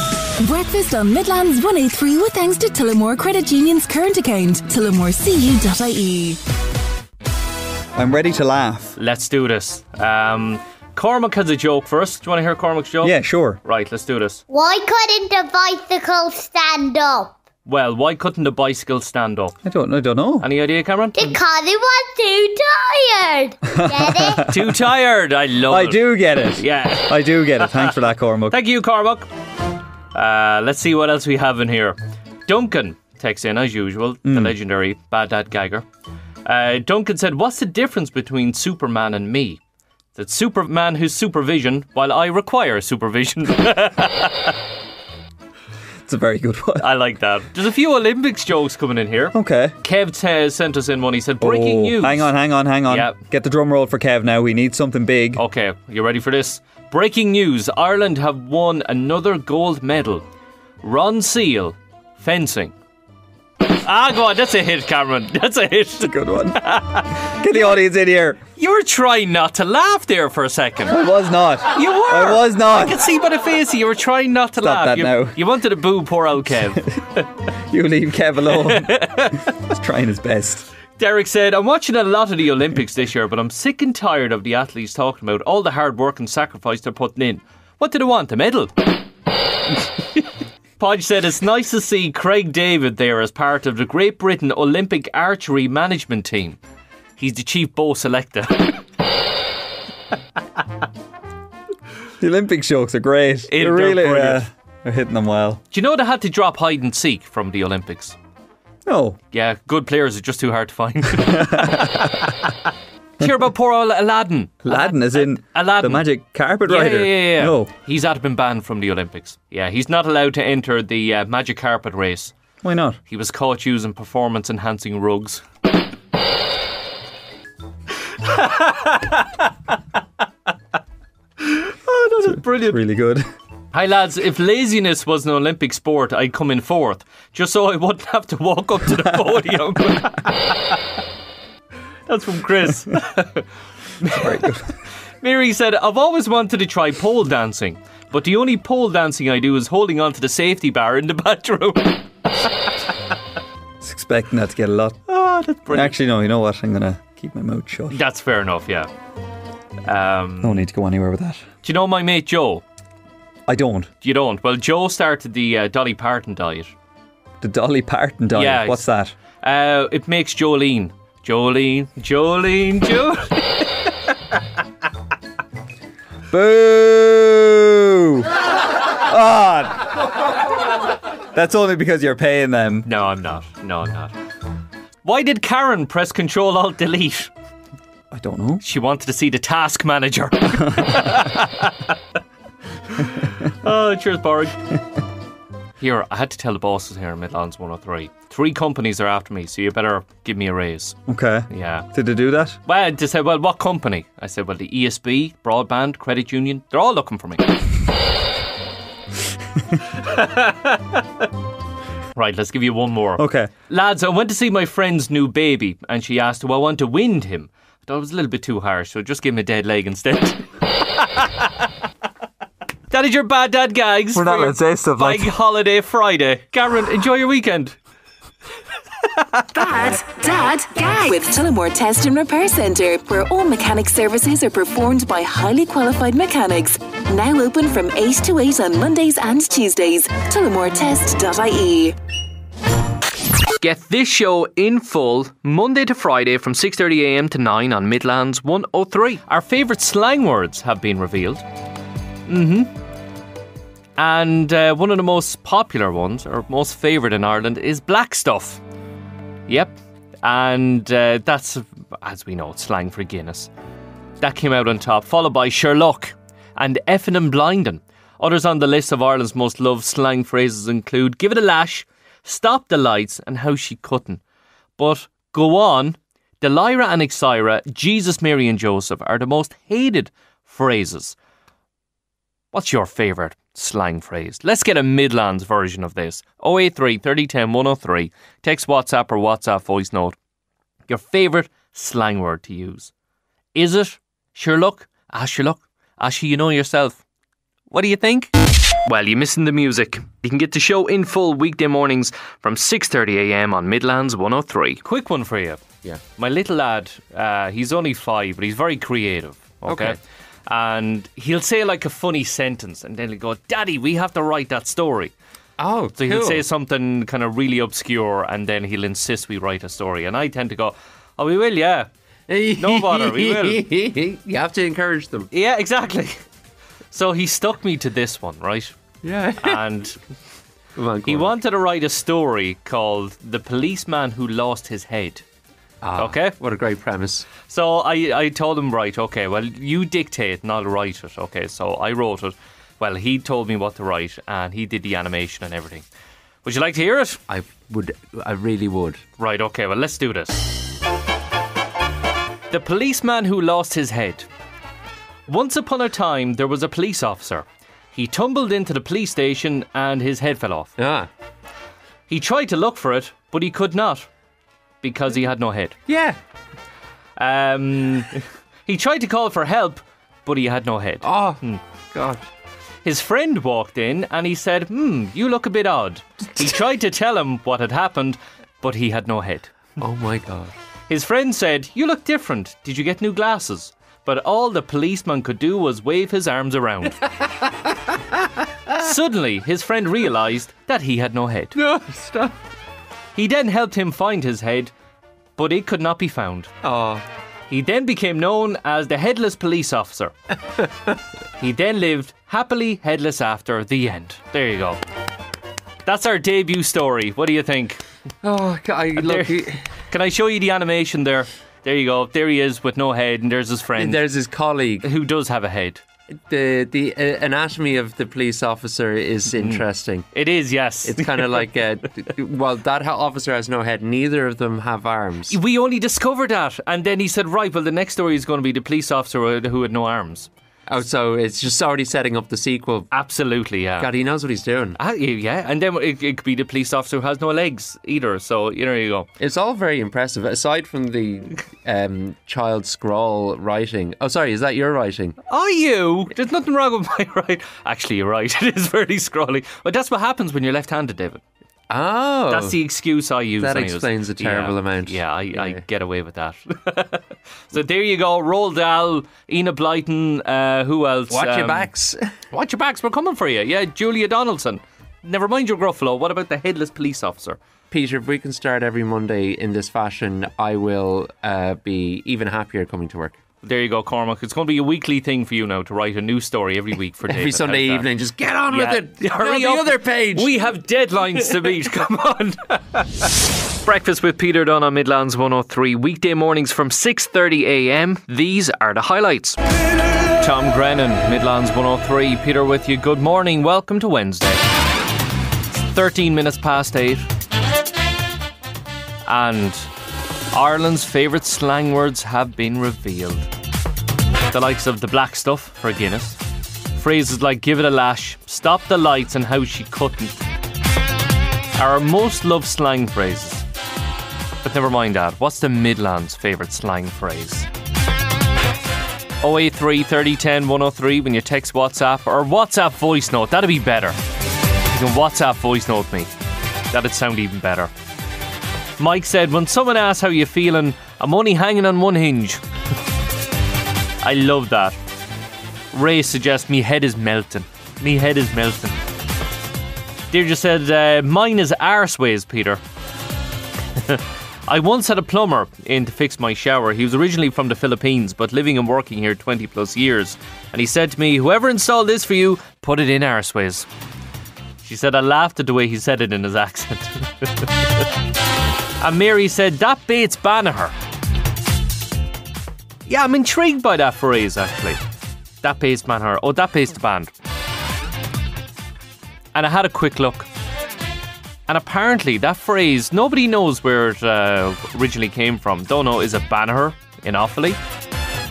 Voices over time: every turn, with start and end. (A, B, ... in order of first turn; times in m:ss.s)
0:00.4-0:06.4 A
0:08.0-0:09.0 B
0:09.0-0:14.4 C
0:13.0-0:13.6 B
0:14.5-0:17.3 D
0:17.7-0:19.6 C
0:19.6-0:20.5 B
0:20.4-0:21.4 C
0:21.2-0:24.5 D
0:23.7-0:24.8 B
0:24.5-0:28.0 C
0:25.7-0:28.6 B
0:28.5-0:29.3 C
0:30.1-0:35.9 C
0:34.2-0:34.6 B
0:36.4-0:39.6 C
0:40.2-0:44.6 C
0:46.0-0:46.9 B
0:46.8-0:52.3 C
0:49.3-0:49.8 B
0:51.4-0:55.4 B
0:52.9-0:53.2 C
0:55.4-1:00.2 C
1:00.8-1:02.7 C
1:03.7-1:07.3 C
1:06.0-1:08.4 B
1:08.6-1:11.0 C
1:10.9-1:13.1 B
1:11.7-1:17.3 C
1:14.6-1:15.4 B
1:17.6-1:20.7 B
1:18.5-1:19.5 C
1:21.0-1:28.7 C
1:30.8-1:36.6 C
1:37.2-1:38.8 C
1:42.2-1:45.6 B
1:43.5-1:44.4 C
1:45.7-1:48.2 C
1:48.9-1:49.2 B
1:49.3-1:52.5 C
1:51.2-1:52.2 B
1:53.2-1:56.1 C
1:54.6-1:57.7 B
1:56.6-2:02.3 C
2:02.6-2:03.0 B
2:03.1-2:05.4 C
2:08.0-2:09.5 C
2:11.4-2:12.8 C
2:12.2-2:13.3 B
2:13.7-2:20.8 C
2:22.1-2:23.5 C
2:24.0-2:24.5 C
2:24.2-2:24.7 B
2:25.2-2:32.5 C
2:33.8-2:35.0 B
2:35.1-2:36.0 C
2:35.7-2:38.0 B
2:37.9-2:38.9 C
2:39.9-2:40.6 C
2:40.4-2:41.5 B
2:41.6-2:42.6 C
2:43.5-2:43.9 B
2:44.0-2:46.7 C
2:47.4-2:49.1 B
2:48.3-2:48.9 C
2:49.4-2:53.6 C
2:56.3-3:00.1 B
3:01.3-3:02.9 B
3:02.9-3:04.1 C
3:05.0-3:07.3 C
3:08.1-3:08.6 B
3:08.6-3:12.0 C
3:10.7-3:11.1 B
3:12.9-3:14.6 C
3:15.8-3:21.0 C
3:21.1-3:22.6 B
3:21.5-3:21.9 C
3:22.7-3:27.5 C
3:30.0-3:31.0 C
3:32.2-3:41.7 C
3:33.2-3:33.5 B
3:42.9-3:47.8 C
3:44.1-3:45.3 B
3:49.5-4:02.0 A
4:03.6-4:11.4 C
4:12.3-4:12.7 C
4:14.0-4:18.6 C
4:19.5-4:23.5 C
4:24.2-4:34.2 C
4:34.8-4:41.2 C
4:42.5-4:50.2 C
4:50.9-4:52.9 C
4:53.6-4:57.0 C
4:57.7-4:58.3 C
4:58.8-5:05.6 C
5:06.2-5:15.1 C
5:09.7-5:10.0 E
5:15.6-5:16.4 E
5:16.0-5:21.9 C
5:22.3-5:25.3 E
5:22.6-5:23.7 C
5:25.3-5:26.2 C
5:26.9-5:28.8 C
5:29.0-5:29.6 E
5:29.4-5:30.0 C
5:30.8-5:31.3 E
5:31.1-5:35.2 C
5:35.8-5:37.3 E
5:36.0-5:36.4 C
5:37.4-5:45.8 C
5:46.4-5:47.2 C
5:47.3-5:49.0 E
5:49.2-5:50.6 C
5:52.5-5:54.3 C
5:55.3-6:00.8 C
6:00.8-6:01.1 E
6:02.1-6:04.1 C
6:04.8-6:05.8 C
6:05.9-6:06.2 E
6:07.2-6:11.6 C
6:11.0-6:11.4 E
6:11.9-6:12.3 E
6:12.8-6:19.6 C
6:19.8-6:20.5 E
6:20.9-6:27.0 C
6:28.8-6:31.6 C
6:31.6-6:32.4 E
6:33.2-6:34.7 C
6:35.4-6:36.5 C
6:36.6-6:37.0 E
6:37.5-6:40.2 C
6:41.4-6:44.8 C
6:45.8-6:47.8 C
6:48.2-6:49.6 E
6:48.9-6:54.0 C
6:53.8-6:54.9 E
6:54.8-6:55.8 C
6:56.3-7:00.1 E
6:59.3-7:01.5 C
7:00.8-7:05.4 E
7:05.3-7:10.3 C
7:10.7-7:12.9 E
7:12.9-7:13.9 C
7:13.8-7:14.8 E
7:14.8-7:19.1 C
7:19.2-7:25.2 E
7:25.3-7:31.2 C
7:31.7-7:32.6 E
7:32.3-7:41.7 C
7:33.4-7:35.6 E
7:41.1-7:42.1 E
7:42.3-7:47.4 C
7:47.7-7:53.1 E
7:53.4-7:57.9 C
7:57.1-8:00.3 E
7:58.5-8:03.0 C
8:03.6-8:09.4 C
8:10.2-8:14.4 C
8:15.7-8:17.1 C
8:19.1-8:19.7 C
8:20.3-8:23.3 C
8:24.3-8:26.2 C
8:26.8-8:30.2 C
8:31.6-8:33.4 C
8:34.4-8:37.5 C
8:39.2-8:44.0 C
8:44.7-8:46.1 C
8:46.7-8:47.7 C
8:48.8-8:52.4 C
8:54.0-8:54.8 C
8:55.7-8:58.8 C
9:00.1-9:02.6 C
9:03.7-9:13.7 C
9:14.6-9:17.5 C
9:18.8-9:20.7 C
9:22.9-9:24.8 C
9:25.4-9:27.1 C
9:29.3-9:30.3 C
9:31.5-9:37.6 C